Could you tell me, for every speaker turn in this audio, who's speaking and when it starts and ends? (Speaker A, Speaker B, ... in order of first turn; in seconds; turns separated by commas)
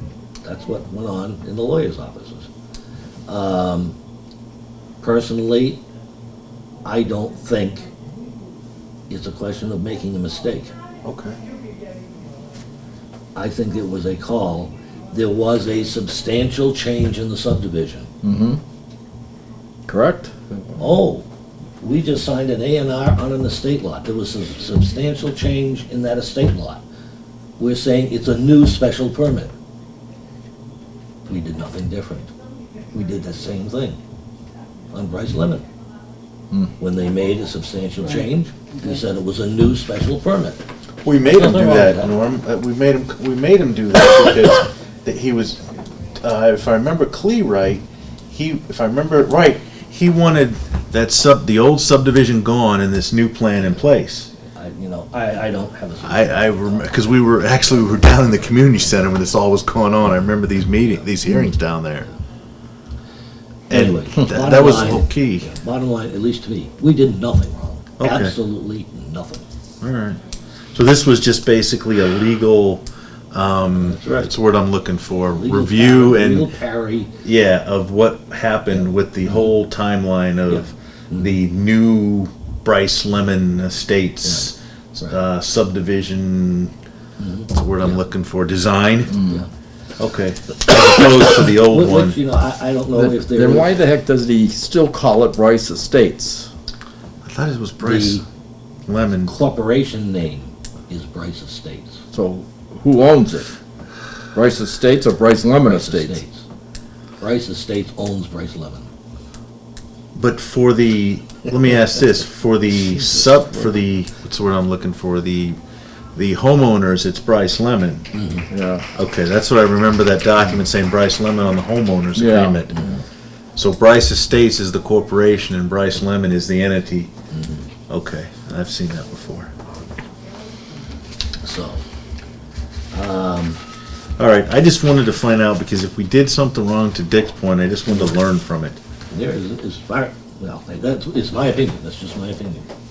Speaker A: 0.4-2.5, Speaker A: 3.3-4.0, Speaker A: 5.0-5.8, Speaker A: 6.8-7.8, Speaker A: 9.1-10.7, Speaker B: 11.1-11.4, Speaker A: 13.3-18.1, Speaker C: 18.2-18.6, Speaker C: 19.9-20.8, Speaker A: 20.8-21.2, Speaker A: 21.8-26.8, Speaker A: 27.6-29.5, Speaker A: 31.2-32.3, Speaker A: 32.9-34.0, Speaker A: 34.9-35.6, Speaker A: 36.8-40.6, Speaker B: 41.0-45.7, Speaker A: 41.2-42.1, Speaker B: 46.2-54.3, Speaker A: 54.5-58.2, Speaker B: 56.0-62.1, Speaker B: 63.7-65.5, Speaker A: 63.7-69.5, Speaker B: 68.0-68.3, Speaker B: 69.8-70.2, Speaker B: 70.7-76.5, Speaker A: 73.8-74.3, Speaker A: 75.3-77.2, Speaker B: 77.2-86.7, Speaker A: 80.5-81.3, Speaker A: 87.2-88.0, Speaker B: 87.5-89.2, Speaker B: 90.0-92.2, Speaker A: 91.6-93.9, Speaker C: 92.9-96.5, Speaker B: 97.2-98.2, Speaker A: 97.8-98.2, Speaker B: 98.9-99.3, Speaker A: 99.2-102.0, Speaker C: 102.1-103.5, Speaker C: 104.3-106.2, Speaker A: 105.6-106.4, Speaker A: 107.2-108.9, Speaker B: 110.1-115.6, Speaker B: 116.1-118.1, Speaker A: 118.1-118.5, Speaker C: 118.5-118.8, Speaker B: 118.9-122.9, Speaker C: 122.2-122.8, Speaker A: 122.7-123.0, Speaker B: 123.6-127.1, Speaker A: 127.3-127.7, Speaker B: 127.9-129.5, Speaker A: 131.4-131.8, Speaker A: 132.9-133.6, Speaker B: 134.2-138.8, Speaker A: 139.1-142.7